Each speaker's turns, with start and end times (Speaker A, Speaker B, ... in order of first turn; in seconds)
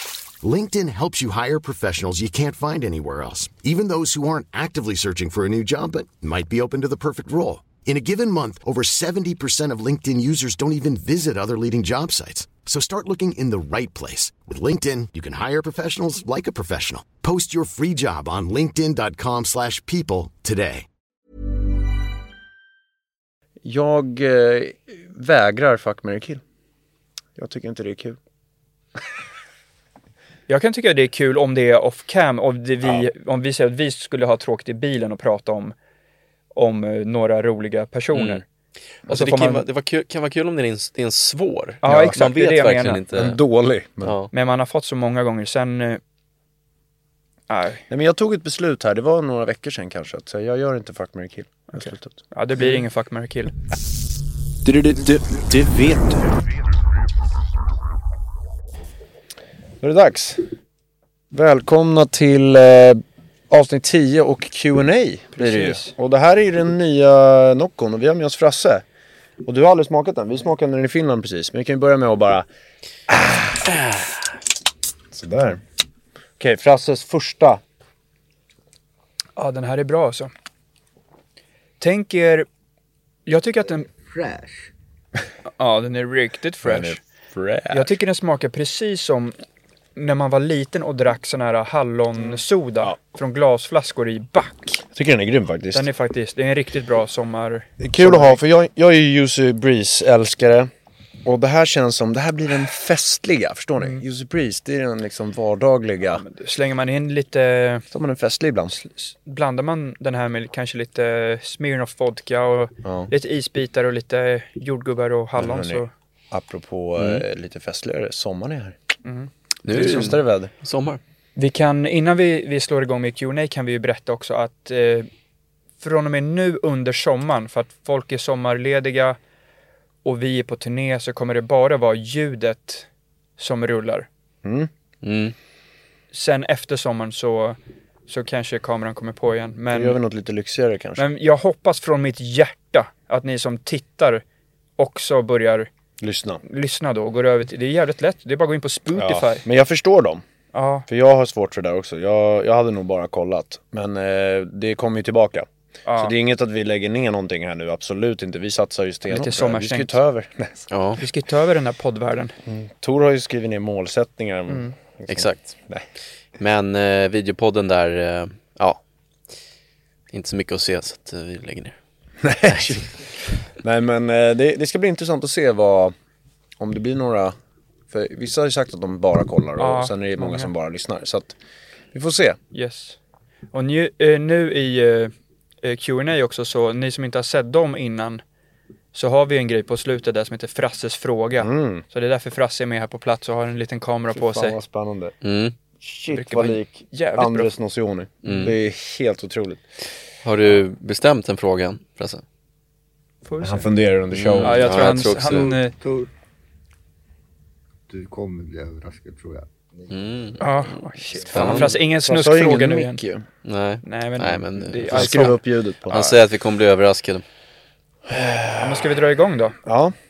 Speaker A: 0.4-20.9
Speaker B: 23.6-26.4, 27.4-28.2, 41.8-42.2, 43.1-44.2, 47.9-52.8, 54.6-56.4, 59.8-60.5, 61.3-68.8, 69.5-72.5, 73.1-74.0, 75.1-75.6, 76.4-77.6, 86.6-87.9, 92.2-93.0, 94.9-95.9, 97.8-100.7, 101.2-106.2, 107.9-108.8, 112.8-113.1, 115.4-118.8, 119.7-120.5, 134.4-134.7, 139.7-141.0, 146.0-146.4, 148.9-150.2, 150.9-160.7, 162.5-165.8, 172.2-172.9, 173.6-175.9, 176.6-177.3, 177.9-181.3, 181.9-182.4, 191.4-191.8, 194.1-195.2, 195.8-199.7, 203.4-205.0, 211.3-213.3, 214.9-216.0, 218.1-219.0, 219.6-219.9
Speaker C: 30.5-35.7, 36.5-38.4, 39.1-39.6, 41.8-43.0, 44.3-46.0, 47.5-47.9, 51.7-53.5, 65.4-65.9, 79.4-80.3, 81.8-82.5, 83.3-83.9, 85.6-87.0, 87.7-89.4, 90.0-94.8, 95.7-98.4, 106.2-107.9, 108.8-115.9, 119.0-120.1, 121.4-125.1, 125.8-129.2, 130.0-132.9, 133.4-134.1, 136.1-140.0, 141.0-144.2, 144.8-145.7, 146.4-149.4, 150.5-150.9, 155.9-156.1, 159.1-160.0, 161.0-162.3, 164.5-164.8, 179.6-180.5, 182.5-183.0, 183.5-188.2, 188.9-194.6, 196.1-197.5, 203.2-203.7, 204.4-205.8, 210.4-213.0, 213.8-216.2, 218.6-219.6
Speaker D: 38.1-38.4, 39.1-43.4, 44.0-44.3, 117.0-117.2, 119.6-121.0, 135.0-135.3, 160.7-161.0, 165.1-165.6, 166.4-168.8, 170.1-171.8, 172.5-172.9, 195.2-195.6, 198.2-198.6, 200.2-202.2, 204.1-205.5, 209.9-210.4, 211.3-211.7, 213.4-217.2
Speaker E: 83.8-84.7, 205.8-206.1, 207.9-210.0